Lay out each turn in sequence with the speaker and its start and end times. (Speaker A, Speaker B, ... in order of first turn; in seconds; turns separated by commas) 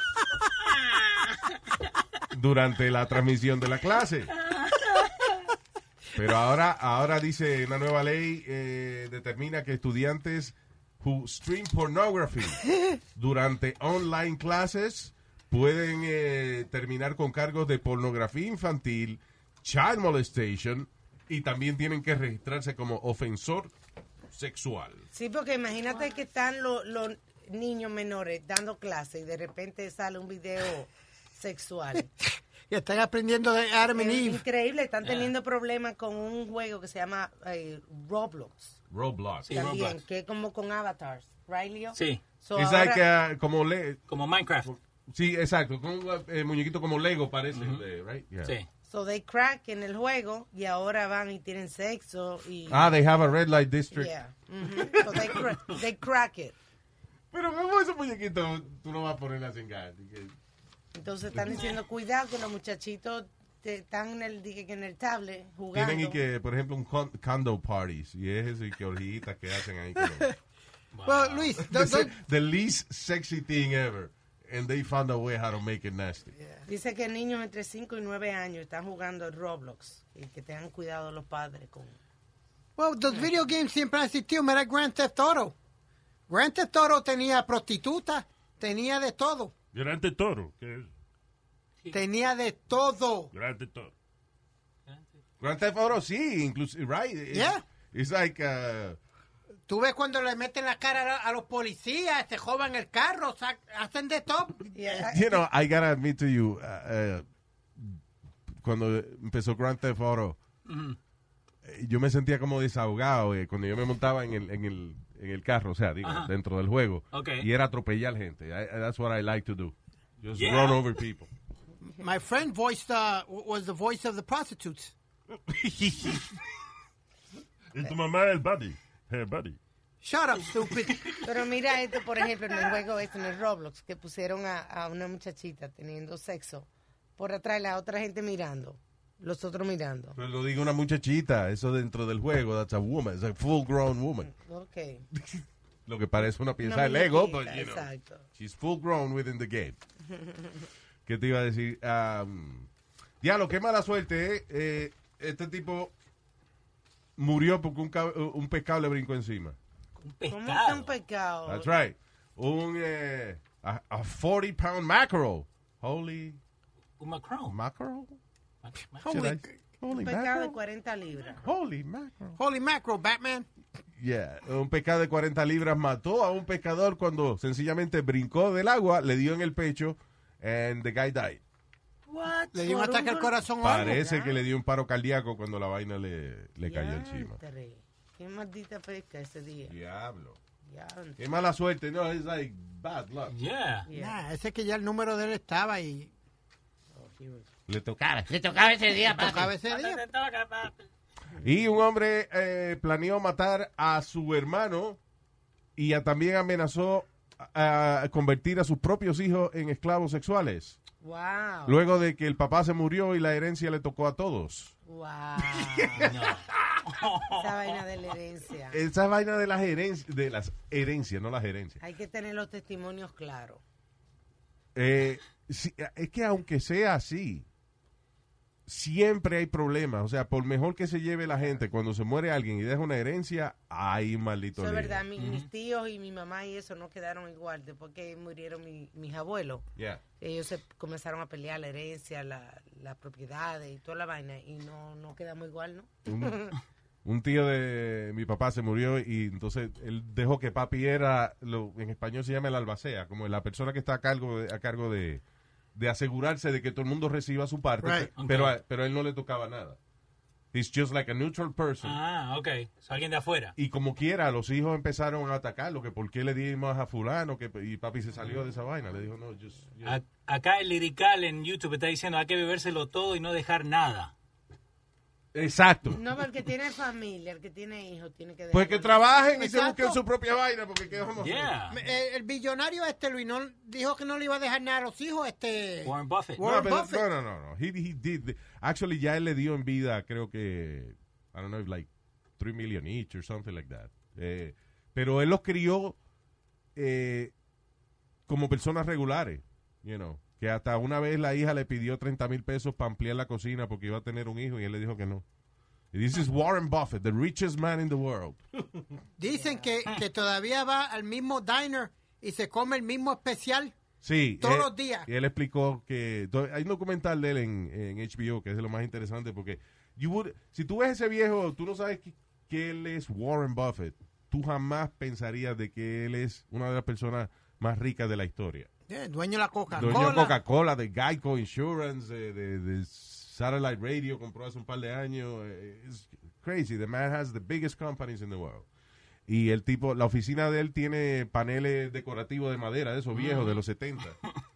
Speaker A: 2.3-4.3, Speaker A: 6.2-12.6, Speaker A: 13.2-23.7, Speaker A: 24.3-25.1, Speaker B: 25.1-32.1, Speaker C: 32.7-34.4, Speaker B: 33.9-38.8, Speaker D: 35.0-35.3, Speaker A: 38.9-39.9, Speaker D: 39.5-40.0, Speaker B: 39.5-43.0, Speaker D: 42.0-42.2, Speaker A: 42.5-44.0, Speaker D: 44.1-44.7, Speaker A: 44.6-48.5, Speaker D: 47.5-47.8, Speaker B: 48.9-52.9, Speaker A: 52.7-54.1, Speaker B: 53.9-56.6, Speaker A: 54.8-55.4, Speaker A: 57.3-60.3, Speaker B: 61.0-66.2, Speaker A: 61.3-61.6, Speaker A: 65.7-70.3, Speaker D: 70.9-71.5, Speaker C: 71.1-72.1, Speaker A: 71.6-76.3, Speaker B: 76.7-82.0, Speaker C: 82.8-85.5, Speaker C: 86.3-89.5, Speaker E: 89.7-90.9, Speaker C: 91.9-93.3, Speaker E: 93.3-93.9, Speaker A: 95.4-99.0, Speaker C: 97.3-97.6, Speaker C: 99.7-105.1, Speaker B: 104.7-105.4, Speaker A: 105.1-107.2, Speaker A: 108.5-110.4, Speaker D: 110.7-111.0, Speaker A: 111.6-121.3, Speaker D: 116.0-116.3, Speaker D: 117.1-117.5, Speaker D: 120.3-120.8, Speaker C: 122.0-125.0, Speaker E: 125.5-126.2, Speaker E: 127.7-129.6, Speaker C: 130.0-131.2, Speaker B: 131.2-140.2, Speaker A: 140.2-144.3, Speaker B: 144.2-145.1, Speaker A: 145.1-149.8, Speaker B: 146.6-148.3, Speaker B: 150.1-150.7, Speaker A: 151.1-152.7, Speaker A: 153.2-155.9, Speaker A: 157.2-159.6, Speaker D: 160.0-160.9, Speaker B: 160.3-161.7, Speaker A: 161.5-166.4, Speaker D: 167.0-167.6, Speaker A: 167.5-168.2, Speaker D: 168.6-169.0, Speaker C: 169.0-169.6, Speaker A: 169.1-170.6, Speaker B: 169.9-171.5, Speaker A: 171.4-172.4, Speaker C: 172.4-173.5, Speaker A: 174.0-181.4, Speaker B: 182.1-184.4, Speaker C: 182.5-184.0, Speaker A: 183.6-187.4, Speaker B: 186.6-189.8, Speaker A: 189.7-190.4, Speaker B: 190.6-191.2, Speaker A: 191.2-193.3, Speaker D: 193.3-193.9, Speaker B: 193.9-194.2, Speaker C: 193.9-196.1, Speaker B: 196.9-197.5, Speaker A: 197.7-199.5, Speaker C: 199.0-200.0, Speaker D: 199.7-200.9, Speaker A: 201.4-205.0, Speaker A: 205.8-210.8, Speaker B: 211.0-211.8, Speaker A: 211.7-214.8, Speaker B: 214.9-216.1, Speaker A: 215.4-216.8, Speaker D: 216.0-217.8, Speaker B: 217.3-218.8, Speaker A: 218.7-221.8, Speaker B: 221.8-223.6, Speaker A: 224.8-227.5, Speaker A: 228.7-235.0, Speaker B: 234.6-239.7, Speaker D: 235.2-235.5, Speaker A: 239.8-240.0, Speaker B: 240.2-246.6, Speaker A: 246.1-246.4, Speaker A: 247.1-255.2, Speaker A: 255.8-259.8, Speaker C: 257.8-258.1, Speaker D: 258.2-258.6, Speaker A: 260.5-262.0, Speaker D: 261.8-263.5, Speaker A: 263.6-270.0, Speaker D: 269.9-274.1, Speaker A: 275.3-276.0, Speaker B: 275.9-279.1, Speaker A: 278.5-281.6, Speaker C: 279.4-280.0, Speaker D: 281.2-281.8, Speaker C: 281.7-287.0, Speaker D: 285.9-286.4, Speaker A: 286.4-296.0, Speaker A: 296.8-297.3, Speaker A: 298.3-305.2, Speaker A: 305.9-308.9, Speaker C: 309.2-313.8, Speaker B: 309.4-309.7, Speaker A: 314.0-328.7, Speaker C: 314.4-315.1, Speaker C: 328.9-330.4, Speaker A: 329.7-338.7, Speaker A: 339.3-344.2, Speaker D: 343.1-343.6